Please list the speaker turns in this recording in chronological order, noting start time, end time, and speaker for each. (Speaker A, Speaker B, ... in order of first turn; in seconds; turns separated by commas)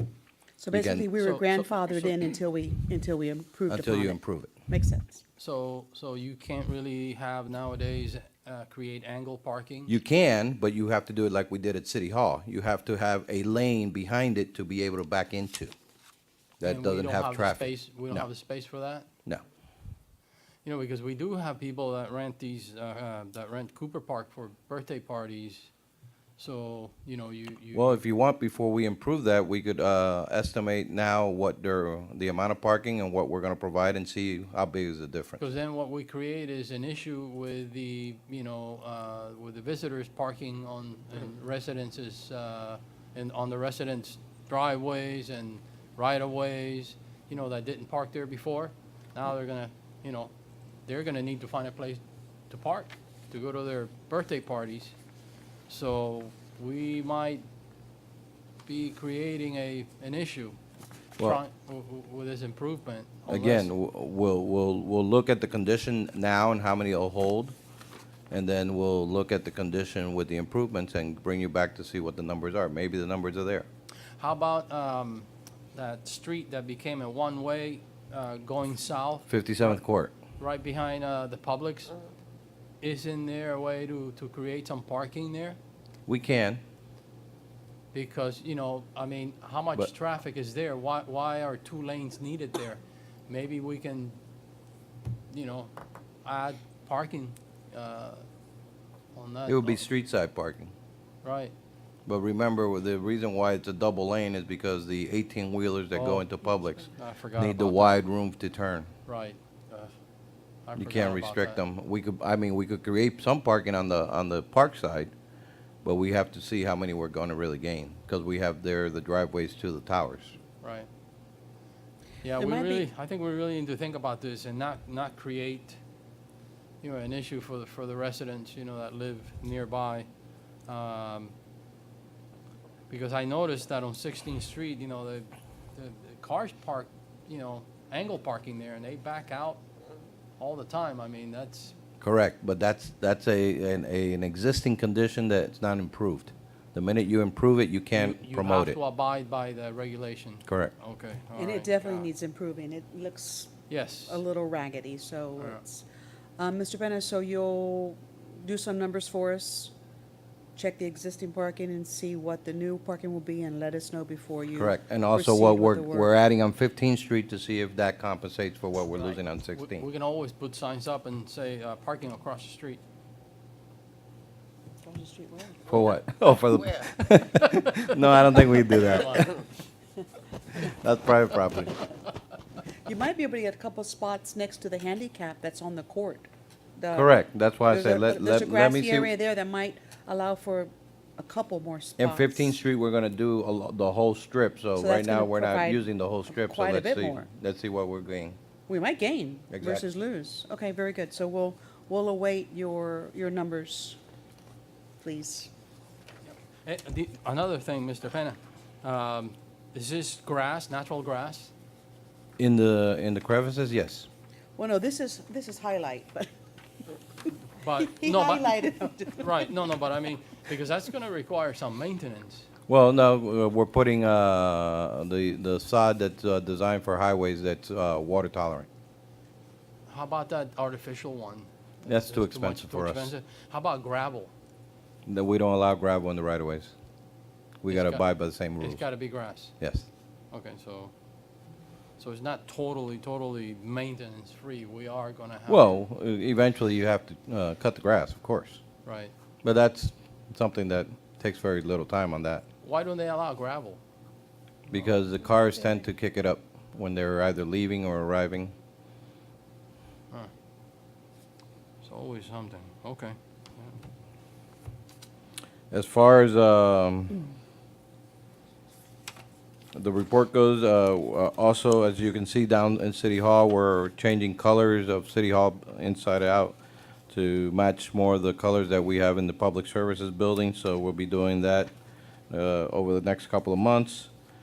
Speaker A: 0.6-5.2, Speaker B: 0.7-1.1, Speaker C: 1.2-2.1, Speaker B: 3.7-4.5, Speaker C: 5.4-9.9, Speaker B: 9.9-15.8, Speaker B: 16.6-18.3, Speaker C: 16.6-19.1, Speaker C: 20.6-25.7, Speaker C: 26.4-28.0, Speaker B: 27.7-35.4, Speaker C: 35.4-50.3, Speaker C: 50.9-54.9, Speaker C: 55.7-57.5, Speaker C: 58.7-60.6, Speaker C: 61.2-63.7, Speaker B: 63.3-67.5, Speaker B: 68.3-73.7, Speaker C: 74.2-79.8, Speaker B: 79.3-80.1, Speaker C: 80.4-82.0, Speaker C: 82.8-85.6, Speaker B: 86.1-86.6, Speaker C: 87.9-94.2, Speaker C: 95.3-95.7, Speaker C: 96.2-98.2, Speaker C: 99.2-99.8, Speaker B: 99.5-100.7, Speaker C: 101.2-101.5, Speaker B: 102.1-108.9, Speaker C: 105.9-106.3, Speaker C: 106.9-108.0, Speaker C: 109.1-109.9, Speaker C: 110.7-111.6, Speaker B: 110.8-115.1, Speaker B: 115.8-120.4, Speaker C: 120.6-120.9, Speaker C: 122.2-125.8, Speaker A: 122.3-122.9, Speaker C: 126.8-130.1, Speaker C: 130.7-131.3, Speaker C: 132.9-139.6, Speaker C: 140.4-141.8, Speaker B: 142.0-148.8, Speaker C: 147.9-152.1, Speaker B: 150.5-150.7, Speaker A: 151.3-155.8, Speaker C: 153.7-154.2, Speaker A: 156.4-159.7, Speaker A: 160.6-166.1, Speaker B: 164.6-169.9, Speaker C: 169.1-172.8, Speaker A: 174.8-175.9, Speaker B: 175.7-179.4, Speaker C: 177.8-179.3, Speaker B: 180.5-181.8, Speaker A: 182.8-192.6, Speaker B: 186.9-189.1, Speaker B: 192.0-198.4, Speaker A: 194.8-197.3, Speaker A: 198.7-204.0, Speaker B: 199.5-199.8, Speaker A: 205.0-205.5, Speaker C: 206.3-211.5, Speaker B: 212.4-214.1, Speaker A: 214.6-216.3, Speaker C: 217.6-222.5, Speaker A: 217.8-219.3, Speaker B: 222.7-228.7, Speaker C: 229.9-234.3, Speaker B: 231.8-233.1, Speaker B: 235.1-236.7, Speaker B: 237.6-238.8, Speaker C: 237.7-239.6, Speaker B: 239.6-239.9, Speaker C: 240.3-240.9, Speaker C: 242.0-245.8, Speaker B: 245.5-248.6, Speaker C: 248.8-249.1, Speaker B: 249.4-252.4, Speaker C: 252.6-253.8, Speaker B: 254.7-258.5, Speaker C: 261.8-263.8, Speaker B: 265.7-267.2, Speaker B: 269.7-276.6, Speaker B: 277.1-281.7, Speaker B: 282.3-284.1